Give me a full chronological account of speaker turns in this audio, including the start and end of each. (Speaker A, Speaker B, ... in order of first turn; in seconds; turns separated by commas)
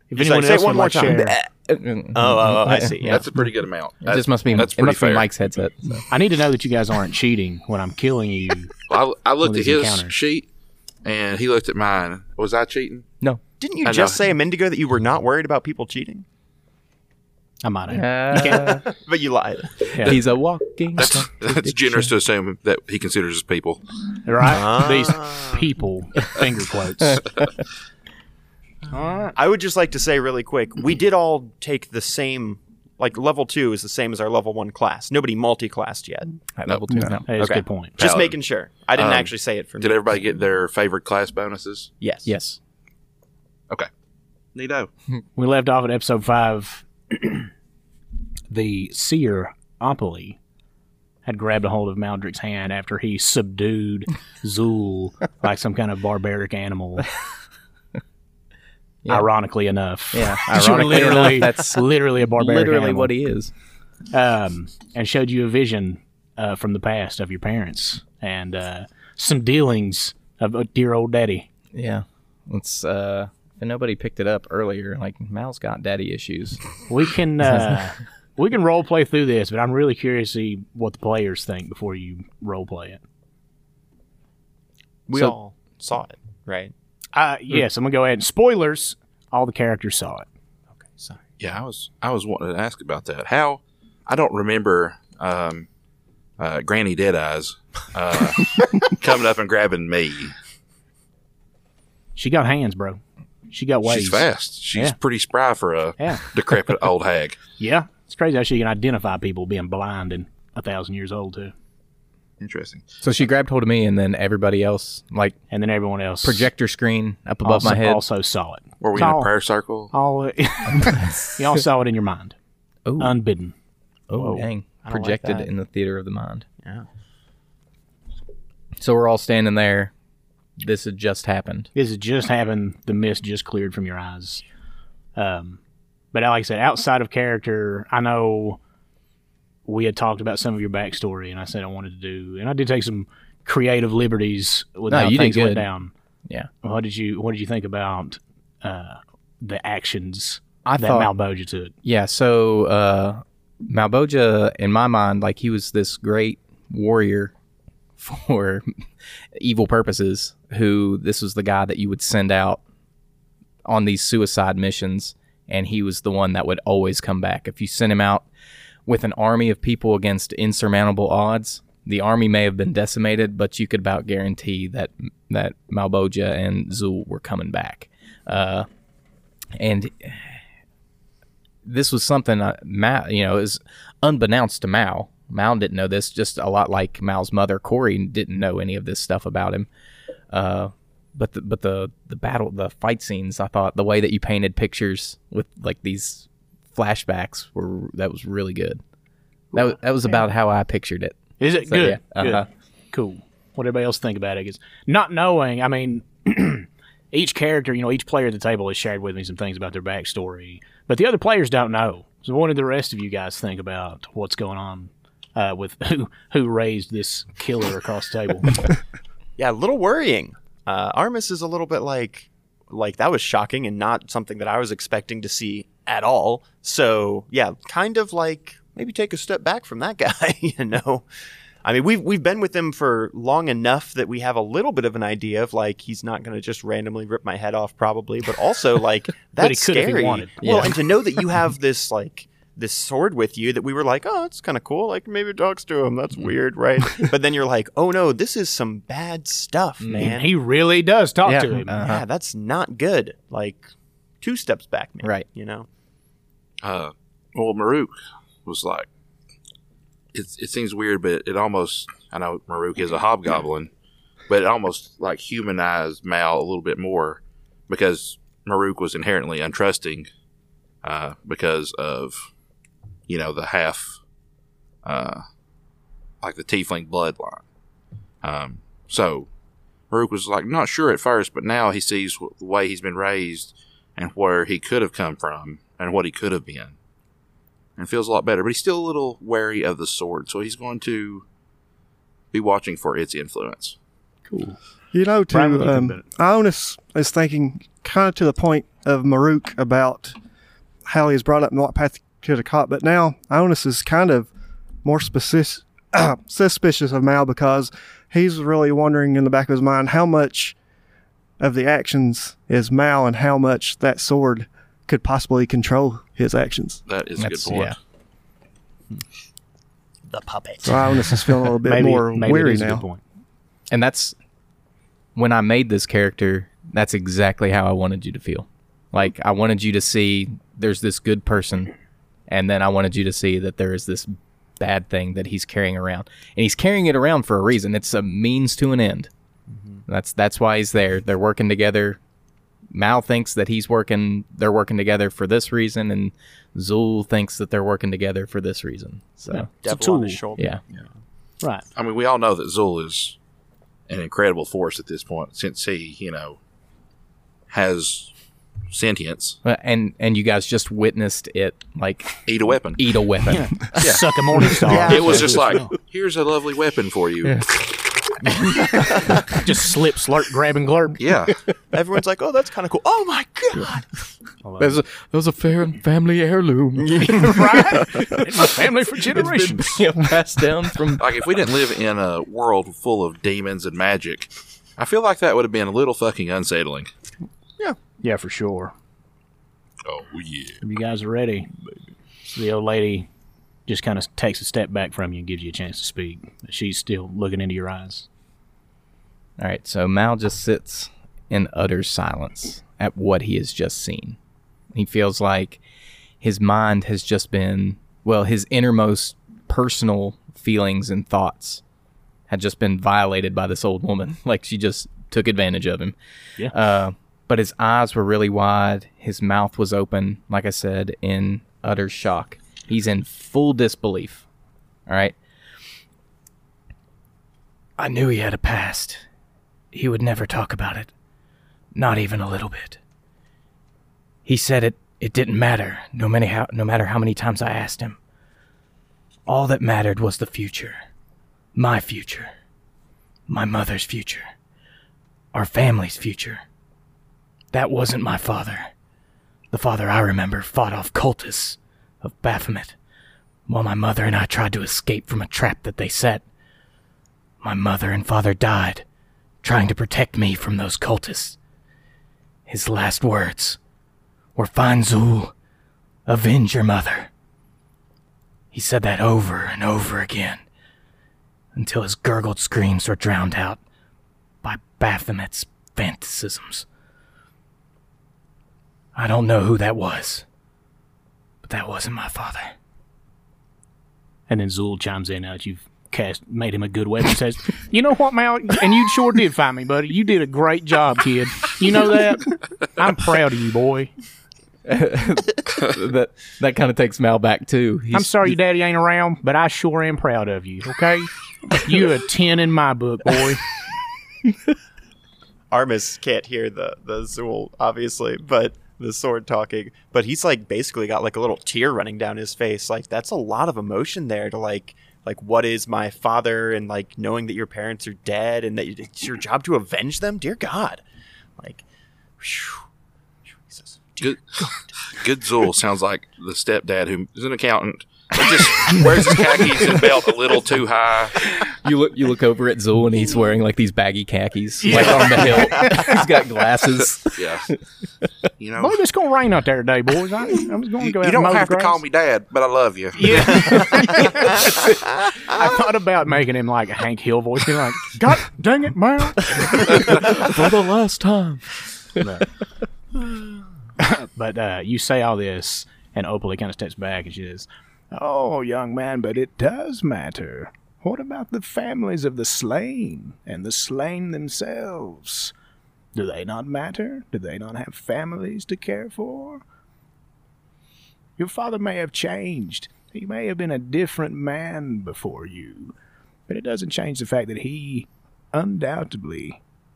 Speaker A: 0.1-1.4, Speaker B: 0.1-1.4, Speaker C: 1.7-3.4, Speaker B: 2.1-3.2, Speaker D: 3.0-5.3, Speaker C: 4.0-6.1, Speaker A: 6.1-8.7, Speaker D: 8.9-10.5, Speaker A: 9.4-10.1, Speaker D: 11.0-13.1, Speaker B: 13.6-16.2, Speaker D: 13.8-14.2, Speaker A: 17.6-18.8, Speaker C: 17.9-18.8, Speaker B: 18.5-19.9, Speaker C: 20.0-22.1, Speaker D: 21.0-23.8, Speaker A: 24.2-27.3, Speaker B: 24.4-25.6, Speaker C: 27.1-27.4, Speaker A: 28.9-29.3, Speaker B: 29.3-36.4, Speaker C: 36.6-37.6, Speaker D: 36.6-37.2, Speaker A: 37.2-38.0, Speaker B: 38.0-40.2, Speaker D: 38.0-38.4, Speaker D: 38.9-41.9, Speaker B: 42.0-42.3, Speaker C: 42.2-42.6, Speaker D: 44.5-44.9, Speaker A: 45.4-47.5, Speaker A: 48.5-50.4, Speaker A: 51.2-57.1, Speaker C: 59.0-59.3, Speaker A: 59.1-63.1, Speaker C: 60.1-63.5, Speaker A: 64.1-71.5, Speaker C: 71.7-76.8, Speaker A: 76.9-83.0, Speaker B: 85.1-86.7, Speaker A: 87.1-90.2, Speaker B: 90.8-91.2, Speaker D: 91.4-95.7, Speaker D: 96.4-100.3, Speaker A: 102.2-105.0, Speaker D: 103.8-107.4, Speaker A: 106.0-106.3, Speaker A: 107.6-111.5, Speaker D: 112.4-112.9, Speaker C: 113.0-115.4, Speaker A: 115.5-116.5, Speaker C: 116.2-118.0, Speaker A: 117.4-119.3, Speaker D: 118.8-119.9, Speaker A: 119.9-122.3, Speaker C: 120.8-121.4, Speaker C: 122.8-123.2, Speaker A: 123.0-123.5, Speaker C: 124.1-126.5, Speaker A: 124.1-124.5, Speaker B: 124.8-125.5, Speaker C: 128.8-129.9, Speaker C: 130.6-131.7, Speaker A: 131.7-134.4, Speaker A: 135.1-135.6, Speaker A: 136.1-138.6, Speaker A: 139.7-145.9, Speaker C: 144.9-145.7, Speaker A: 146.6-151.7, Speaker C: 150.6-151.1, Speaker C: 151.8-157.3, Speaker C: 158.0-158.7, Speaker C: 159.3-162.6, Speaker C: 163.6-168.3, Speaker C: 168.8-178.7, Speaker C: 179.6-180.4, Speaker C: 181.6-189.7, Speaker C: 190.3-198.8, Speaker C: 199.5-202.4, Speaker A: 201.4-218.7, Speaker B: 219.4-231.0, Speaker B: 231.6-250.3, Speaker A: 239.4-240.4, Speaker C: 240.4-240.8, Speaker C: 249.8-250.2, Speaker A: 249.9-251.8, Speaker C: 251.2-252.0, Speaker B: 251.8-253.7, Speaker B: 254.2-255.7, Speaker C: 255.0-255.3, Speaker D: 256.6-258.9, Speaker D: 260.1-263.7, Speaker D: 264.3-270.1, Speaker D: 270.8-272.3, Speaker D: 273.1-274.0, Speaker D: 274.8-275.2, Speaker D: 276.2-277.4, Speaker D: 278.2-279.3, Speaker D: 279.9-286.8, Speaker D: 287.8-291.2, Speaker D: 292.3-293.8, Speaker A: 294.3-294.6, Speaker E: 294.9-300.1, Speaker A: 295.3-296.0, Speaker E: 300.9-304.3, Speaker E: 304.8-310.6, Speaker E: 311.4-316.8, Speaker D: 316.9-317.8, Speaker C: 317.2-317.8, Speaker B: 320.1-320.7, Speaker E: 320.6-322.8, Speaker A: 321.6-323.0, Speaker C: 323.7-324.1, Speaker C: 325.1-331.7, Speaker C: 332.3-339.1, Speaker B: 339.5-339.8, Speaker C: 339.9-342.0, Speaker C: 342.7-349.5, Speaker A: 349.3-350.2, Speaker B: 349.6-350.9, Speaker C: 350.4-350.6, Speaker D: 351.8-353.1, Speaker D: 353.9-356.4, Speaker D: 357.5-358.1, Speaker D: 358.7-359.4, Speaker C: 359.4-363.8, Speaker D: 362.2-362.9, Speaker A: 363.3-365.7, Speaker B: 364.6-365.6, Speaker D: 364.8-367.5, Speaker C: 367.2-367.6, Speaker C: 368.2-368.9, Speaker A: 369.3-371.0, Speaker D: 371.0-371.4, Speaker B: 371.7-374.0, Speaker A: 374.4-374.8, Speaker C: 374.6-378.5, Speaker A: 377.0-379.8, Speaker C: 379.1-381.1, Speaker D: 381.0-386.9, Speaker A: 388.0-388.7, Speaker D: 389.8-390.6, Speaker A: 390.6-391.5, Speaker A: 392.2-393.1, Speaker A: 393.7-398.1, Speaker C: 399.4-404.2, Speaker C: 404.7-405.6, Speaker C: 406.2-411.6, Speaker C: 412.3-424.2, Speaker C: 424.9-425.2, Speaker C: 427.8-429.0, Speaker C: 429.7-430.9, Speaker C: 431.7-432.8, Speaker C: 434.2-438.0, Speaker C: 439.2-440.8, Speaker C: 441.5-442.3, Speaker C: 443.3-444.3, Speaker C: 445.3-446.4, Speaker C: 447.5-448.7, Speaker C: 449.5-452.8, Speaker C: 453.5-456.2, Speaker C: 457.4-458.8, Speaker C: 459.4-461.4, Speaker C: 462.5-463.6, Speaker C: 464.4-465.3, Speaker C: 466.1-467.1, Speaker C: 468.5-470.4, Speaker C: 471.5-473.6, Speaker C: 474.4-476.6, Speaker C: 478.9-480.2, Speaker C: 481.4-482.5, Speaker A: 484.3-493.9, Speaker C: 494.6-498.4, Speaker A: 497.9-503.4, Speaker B: 505.5-520.8, Speaker B: 521.4-521.6, Speaker B: 522.2-522.6, Speaker B: 523.3-524.5, Speaker D: 524.0-531.2, Speaker C: 531.4-537.5, Speaker A: 534.6-535.9, Speaker D: 537.1-537.5, Speaker D: 538.4-538.8, Speaker A: 538.6-541.8, Speaker D: 540.8-543.6, Speaker A: 543.0-549.8, Speaker C: 549.3-552.2, Speaker A: 553.8-565.3, Speaker A: 565.9-569.4, Speaker A: 571.2-575.7, Speaker A: 576.3-579.4